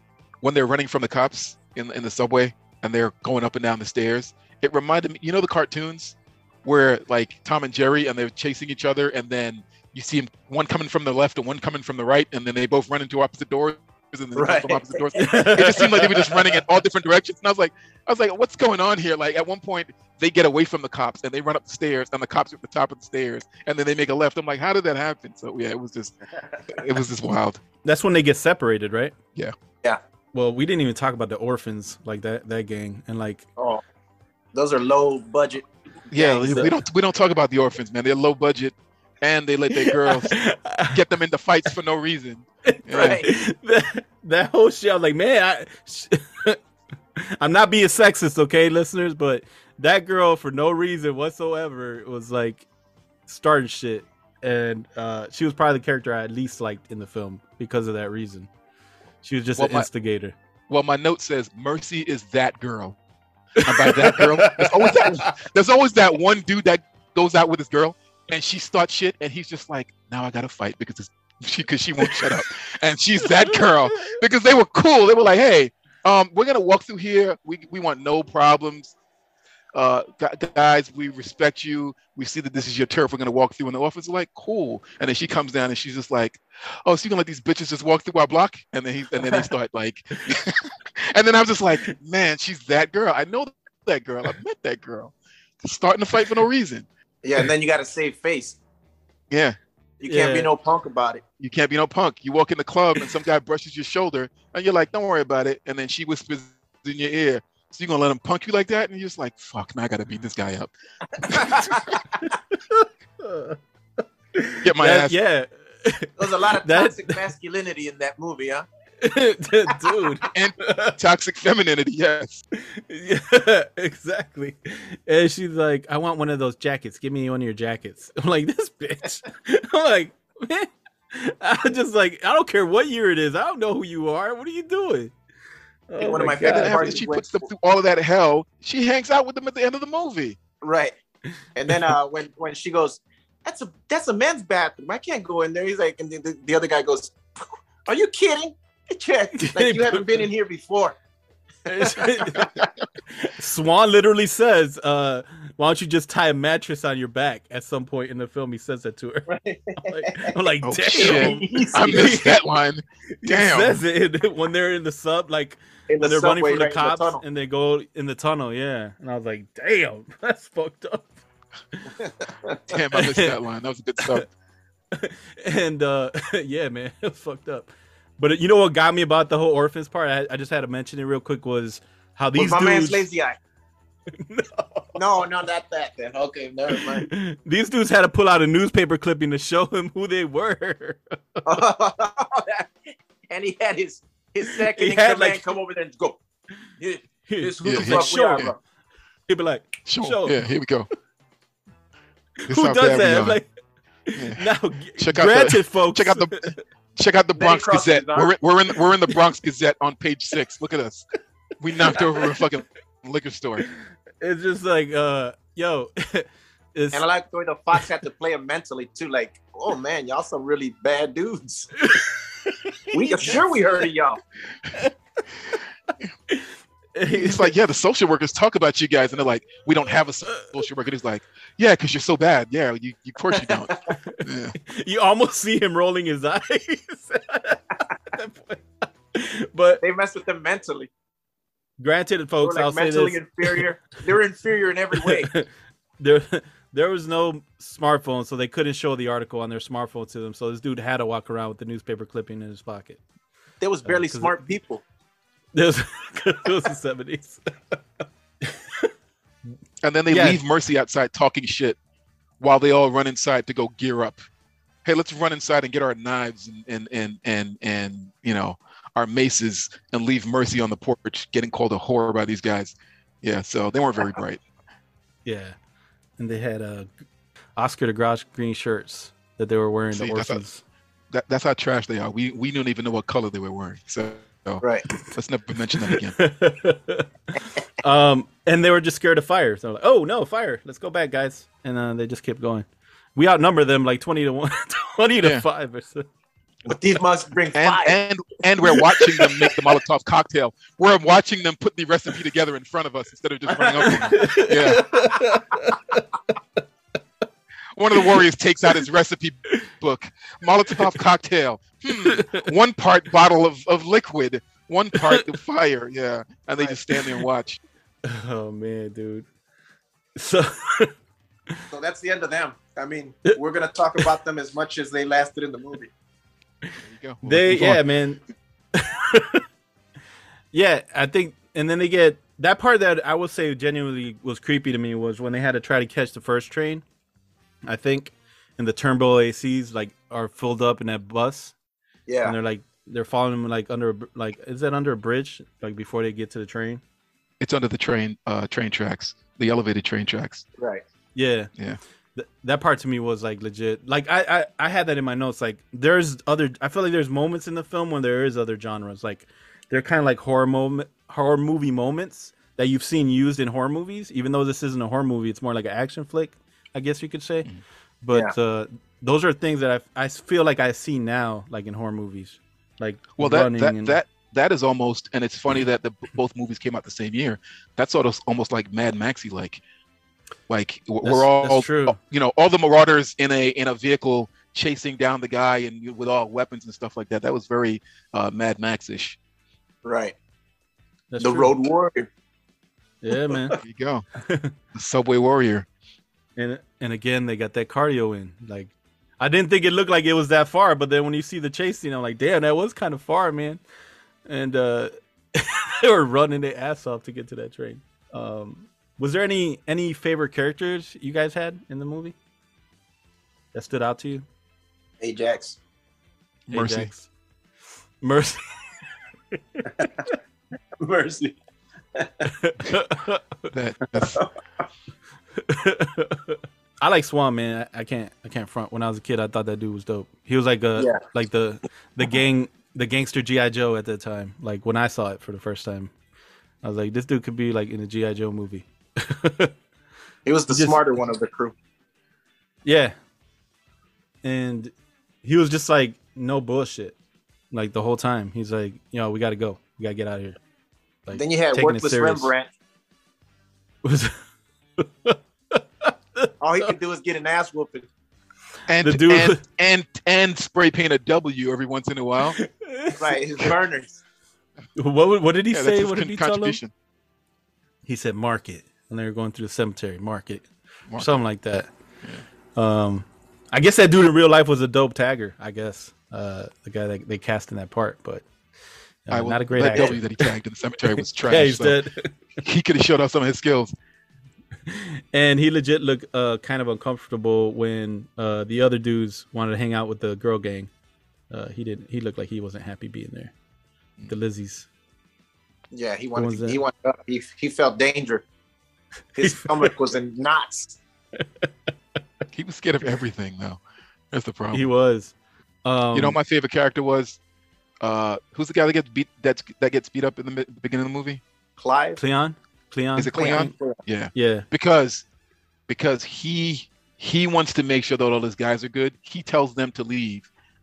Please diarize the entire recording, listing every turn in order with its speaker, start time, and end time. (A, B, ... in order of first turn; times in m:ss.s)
0:00.4-0:26.2 A
0:14.3-0:16.3 B
0:15.2-0:16.1 C
0:26.7-0:27.6 A
0:27.8-0:29.1 C
0:30.3-0:33.4 C
0:33.6-0:33.8 B
0:34.5-0:36.7 B
0:36.1-0:43.2 A
0:39.7-0:41.0 C
0:42.6-0:46.6 C
0:42.9-0:43.2 B
0:47.2-0:52.6 C
0:53.3-0:58.5 C
0:59.2-1:00.3 C
0:59.6-0:59.9 A
1:00.7-1:03.0 A
1:03.6-1:05.3 C
1:03.6-1:18.9 A
1:12.0-1:12.4 C
1:13.4-1:14.1 C
1:19.7-1:36.9 A
1:37.2-1:38.6 B
1:39.3-1:39.6 A
1:40.0-1:41.2 B
1:40.0-1:40.5 C
1:41.4-1:50.7 A
1:51.2-1:51.9 A
1:51.3-1:52.0 B
1:52.2-1:57.2 C
1:54.6-1:55.2 A
1:56.2-1:58.6 B
1:59.0-2:01.0 C
2:00.3-2:02.4 A
2:02.6-2:15.1 C
2:15.9-2:17.0 C
2:16.0-2:17.4 B
2:16.4-2:20.4 A
2:20.6-2:21.0 B
2:21.5-2:31.0 B
2:29.4-2:30.2 C
2:31.7-2:32.5 C
2:31.7-2:32.6 B
2:33.2-2:39.3 C
2:39.3-2:40.3 B
2:39.8-2:42.4 C
2:40.6-2:43.8 A
2:40.9-2:42.2 B
2:43.2-2:51.2 C
2:45.9-2:47.2 B
2:52.0-2:52.6 B
2:52.7-2:54.3 A
2:52.9-2:53.3 C
2:54.9-3:03.0 C
3:02.3-3:03.4 B
3:04.1-3:05.0 C
3:05.0-3:07.0 B
3:06.7-3:11.2 C
3:11.4-3:12.7 B
3:13.3-3:16.2 B
3:14.5-3:15.5 C
3:16.8-3:18.6 B
3:17.3-3:18.5 C
3:17.6-3:18.5 A
3:19.3-3:20.4 C
3:19.8-3:20.9 A
3:22.4-3:23.5 C
3:22.5-3:23.4 A
3:24.1-3:26.6 C
3:24.1-3:31.1 A
3:27.4-3:28.3 B
3:31.6-3:33.7 A
3:31.8-3:32.3 C
3:34.2-3:37.0 C
3:36.9-3:41.9 B
3:41.8-3:43.4 C
3:42.9-3:44.2 B
3:45.9-3:47.5 C
3:47.1-3:54.5 A
3:50.3-3:50.5 C
3:53.4-3:53.9 B
3:54.1-3:59.8 C
3:59.8-4:00.9 B
4:01.8-4:03.6 C
4:02.4-4:05.3 B
4:05.0-4:05.5 C
4:06.0-4:13.0 C
4:13.6-4:14.8 B
4:13.8-4:14.4 C
4:15.5-4:17.8 C
4:18.4-4:18.9 C
4:19.8-4:21.8 A
4:20.1-4:20.4 C
4:22.4-4:24.2 A
4:24.8-4:34.4 A
4:35.2-4:35.6 C
4:36.2-4:36.9 C
4:37.6-4:40.6 C
4:39.9-4:40.4 A
4:41.1-4:46.2 A
4:45.8-4:47.1 C
4:47.8-4:56.1 C
4:55.2-4:55.4 A
4:56.7-4:58.0 B
4:57.5-5:04.9 A
5:03.5-5:04.2 B
5:04.1-5:06.4 C
5:07.7-5:17.6 A
5:11.9-5:12.4 C
5:15.0-5:15.2 C
5:18.1-5:19.3 C
5:20.2-5:20.9 C
5:21.7-5:25.9 B
5:26.8-5:27.8 A
5:27.2-5:28.2 C
5:28.8-5:29.4 C
5:30.5-5:36.8 C
5:37.6-5:41.5 C
5:42.1-5:42.4 B
5:42.2-5:46.8 C
5:47.4-5:50.4 A
5:50.6-5:50.8 B
5:51.1-5:51.5 C
5:52.2-6:07.5 C
6:08.0-6:14.0 C
6:13.2-6:19.6 A
6:20.5-6:29.2 A
6:21.0-6:22.0 C
6:29.8-6:30.1 B
6:31.1-6:31.5 C
6:31.2-6:32.1 B
6:33.0-6:33.6 C
6:33.6-6:34.0 A
6:34.2-6:34.5 C
6:34.7-6:35.7 A
6:36.4-6:43.6 C
6:44.2-6:52.2 C
6:53.5-6:54.2 C
6:55.0-6:55.6 B
6:56.5-6:56.9 A
6:56.5-6:57.1 C
6:58.0-6:58.6 C
6:59.6-6:59.8 C
6:59.8-7:00.1 B
7:00.8-7:01.4 B
7:02.3-7:03.4 C
7:03.5-7:04.2 A
7:05.4-7:15.9 C
7:16.6-7:19.5 C
7:20.2-7:21.5 B
7:20.5-7:20.8 C
7:22.6-7:23.0 C
7:24.2-7:27.0 C
7:27.5-7:30.4 C
7:31.0-7:32.3 C
7:31.1-7:32.5 B
7:33.8-7:34.2 C
7:34.8-7:36.7 C
7:36.4-7:37.9 B
7:38.7-7:42.4 A
7:38.8-7:39.4 C
7:42.4-7:43.1 C
7:43.0-7:44.0 B
7:44.8-7:46.6 C
7:45.5-7:46.7 A
7:47.8-7:51.7 C
7:50.9-7:51.2 A
7:52.5-7:58.2 C
7:59.0-8:00.3 C
7:59.1-8:01.8 A
7:59.6-8:00.0 B
8:01.2-8:02.2 C
8:02.4-8:03.7 A
8:04.7-8:10.7 C
8:11.3-8:13.3 C
8:14.0-8:14.7 C
8:15.7-8:18.2 B
8:16.1-8:16.6 C
8:19.2-8:20.8 B
8:19.2-8:19.7 C
8:21.2-8:21.5 C
8:22.3-8:23.6 A
8:24.1-8:24.7 A
8:24.5-8:25.1 C
8:25.6-8:26.2 C
8:25.9-8:27.2 A
8:27.8-8:31.2 A
8:31.6-8:32.0 B
8:32.0-8:33.1 C
8:33.0-8:35.0 A
8:33.1-8:33.8 B
8:34.1-8:34.5 C
8:35.7-8:40.3 A